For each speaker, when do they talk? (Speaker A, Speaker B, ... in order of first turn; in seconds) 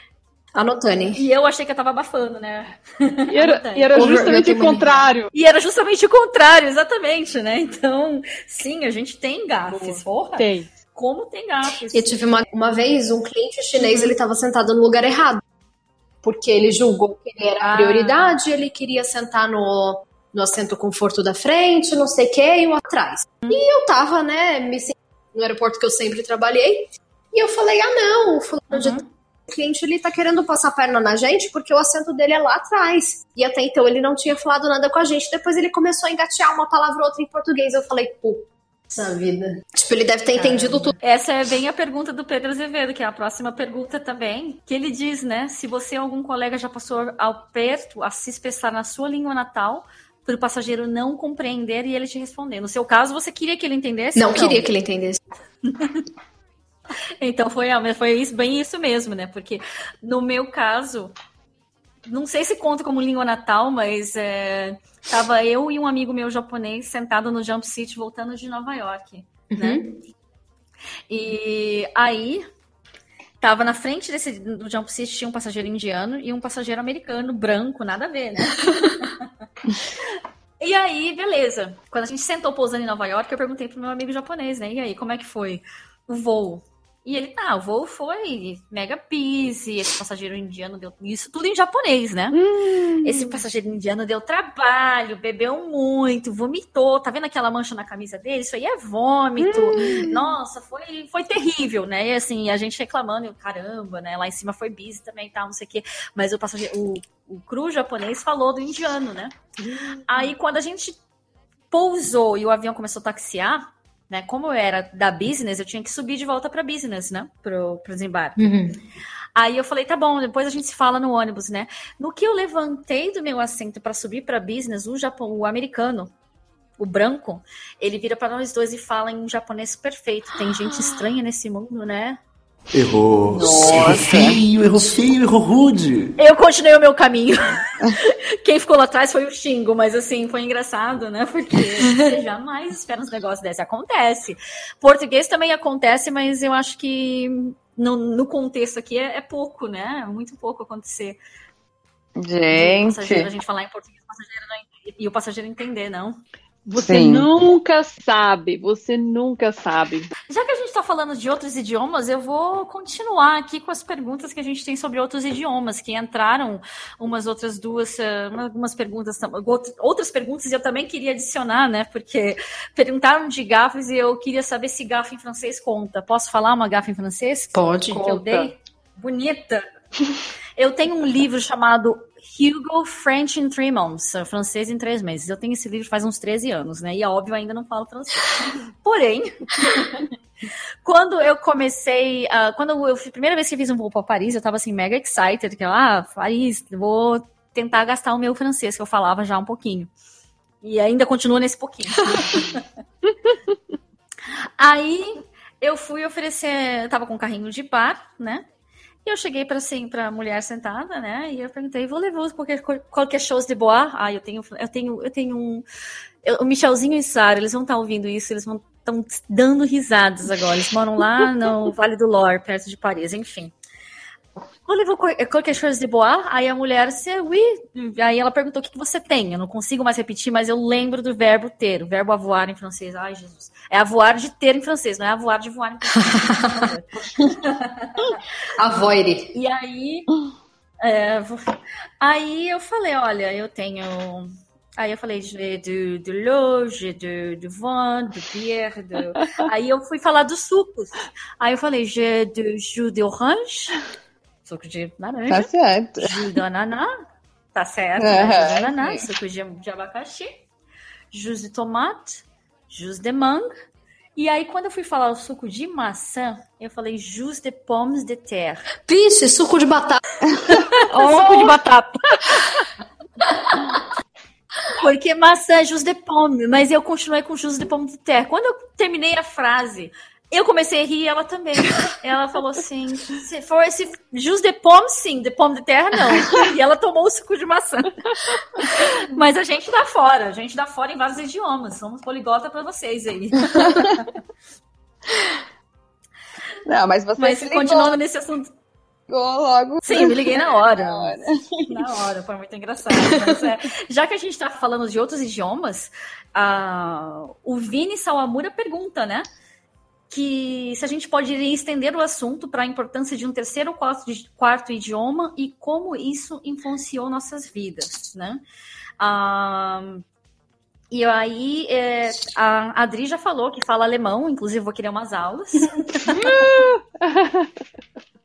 Speaker A: 0.6-1.2, 3.9-5.1, 11.9-15.4, 16.2-41.0, 54.2-55.2, 69.5-70.0, 118.4-118.8, 177.5-178.2, 202.1-202.4, 238.6-239.3, 268.9-270.0
Speaker B: 1.1-4.3, 5.3-12.1, 13.8-14.2, 17.6-18.4, 23.4-23.7, 28.7-29.1, 40.3-54.7, 55.7-56.1, 57.2-61.1, 62.1-69.8, 71.1-72.4, 73.4-79.3, 80.6-92.4, 93.0-109.3, 110.1-111.0, 111.7-118.5, 119.4-126.1, 126.8-132.2, 136.2-151.2, 152.5-156.2, 160.3-179.7, 180.6-190.1, 190.8-199.9, 200.6-202.7, 204.6-208.4, 209.1-215.6, 216.2-223.5, 224.7-238.2, 239.3-240.1, 240.8-253.8, 254.4-256.9, 257.6-260.3, 261.1-263.5, 264.2-268.6, 270.5-272.2, 274.8-288.0, 288.6-293.9, 297.2-298.5, 299.8-309.3, 310.1-318.4, 319.0-320.0, 320.9-326.3
Speaker C: 3.3-5.3, 9.7-10.7, 92.3-93.4, 99.4-100.2, 109.7-110.0, 156.7-160.1, 178.1-178.5, 270.9-271.6, 326.1-327.5
Speaker D: 132.7-136.1
Speaker E: 133.3-134.4, 152.2-153.3, 156.7-157.3, 255.3-256.1, 258.0-259.1, 293.5-293.9, 296.7-298.0, 299.1-301.7